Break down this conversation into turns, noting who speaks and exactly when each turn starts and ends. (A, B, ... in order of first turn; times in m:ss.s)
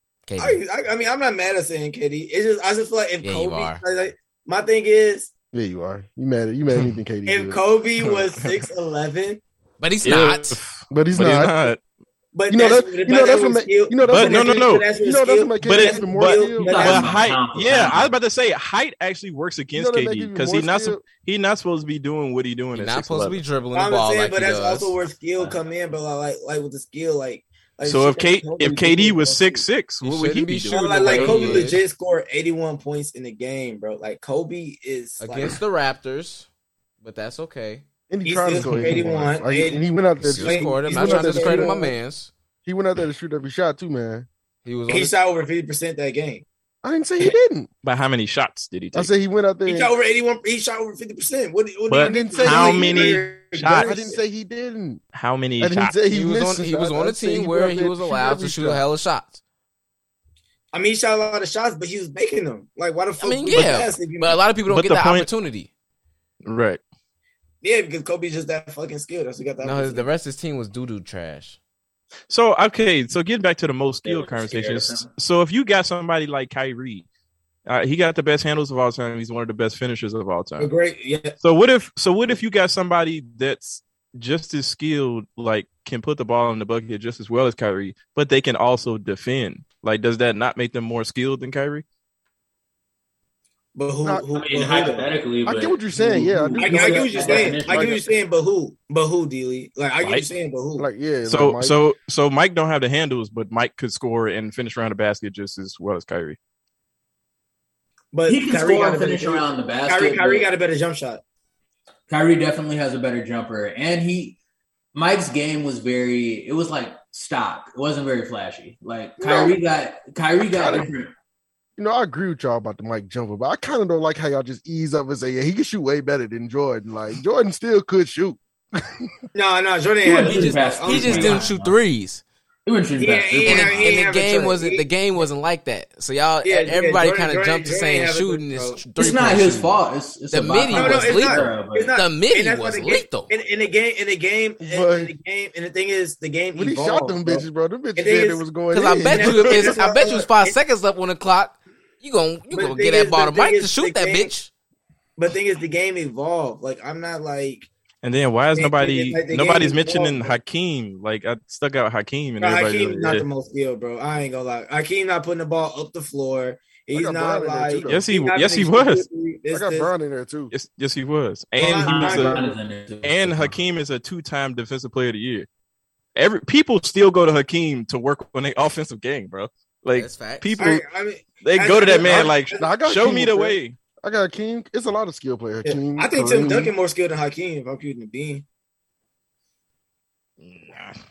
0:00.2-0:00.6 A
0:00.4-0:05.3 B
0:03.2-0:03.8 A
0:05.5-0:07.6 C
0:07.2-0:09.4 B
0:08.0-0:08.6 D
0:09.8-0:10.6 A
0:10.0-0:11.8 D
0:10.9-0:11.7 C
0:12.3-0:17.2 B
0:12.5-0:16.7 C
0:14.0-0:14.8 D
0:15.6-0:23.4 D
0:16.6-0:18.1 E
0:19.7-0:21.0 C
0:22.7-0:25.0 A
0:23.7-0:29.6 B
0:27.8-0:31.7 D
0:30.0-0:31.8 A
0:30.7-0:35.6 B
0:35.2-0:36.5 A
0:37.0-0:37.8 A
0:38.1-0:41.9 C
0:38.2-0:39.8 B
0:40.2-0:42.3 A
0:40.4-0:41.9 B
0:42.6-0:44.3 C
0:44.6-0:45.2 A
0:44.9-0:46.4 B
0:46.8-0:47.7 C
0:47.2-0:49.1 D
0:48.9-0:49.9 C
0:49.6-0:54.2 B
0:51.9-0:53.9 D
0:52.0-0:53.2 C
0:53.8-0:55.0 C
0:55.1-0:56.0 D
0:55.6-0:58.8 C
0:56.1-0:59.4 A
1:00.7-1:04.4 B
1:03.2-1:05.7 A
1:04.7-1:05.3 D
1:06.4-1:06.8 D
1:07.6-1:10.0 B
1:09.6-1:11.6 A
1:12.3-1:17.0 D
1:14.0-1:15.1 E
1:17.6-1:20.7 D
1:20.6-1:21.3 B
1:21.4-1:31.8 D
1:33.7-1:35.1 B
1:34.3-1:38.0 E
1:35.4-1:38.0 C
1:36.6-1:40.9 B
1:40.0-1:40.2 D
1:40.8-1:41.8 C
1:41.2-1:46.4 D
1:48.1-1:51.2 B
1:48.3-1:50.5 E
1:52.1-1:54.4 E
1:54.9-2:01.1 E
1:59.2-1:59.5 B
2:00.4-2:00.9 C
2:01.8-2:09.1 C
2:09.3-2:11.5 B
2:10.0-2:11.7 E
2:10.1-2:12.2 A
2:12.6-2:14.1 E
2:13.0-2:15.2 B
2:13.4-2:19.8 A
2:16.4-2:18.8 B
2:19.0-2:21.9 E
2:20.3-2:23.3 A
2:20.7-2:30.6 B
2:24.6-2:25.1 C
2:26.5-2:29.5 C
2:28.7-2:34.5 A
2:32.5-2:34.3 B
2:35.2-2:37.7 B
2:38.0-2:43.2 D
2:38.5-2:40.3 B
2:42.4-2:49.9 B
2:46.9-2:48.1 C
2:47.8-2:49.0 D
2:49.5-2:50.5 C
2:50.5-2:52.4 D
2:51.6-2:53.6 E
2:51.6-2:52.5 B
2:53.0-2:55.5 D
2:56.1-3:00.8 D
2:59.9-3:00.6 A
3:00.6-3:02.7 B
3:01.4-3:03.8 D
3:02.0-3:06.7 C
3:05.6-3:08.4 B
3:10.4-3:11.0 D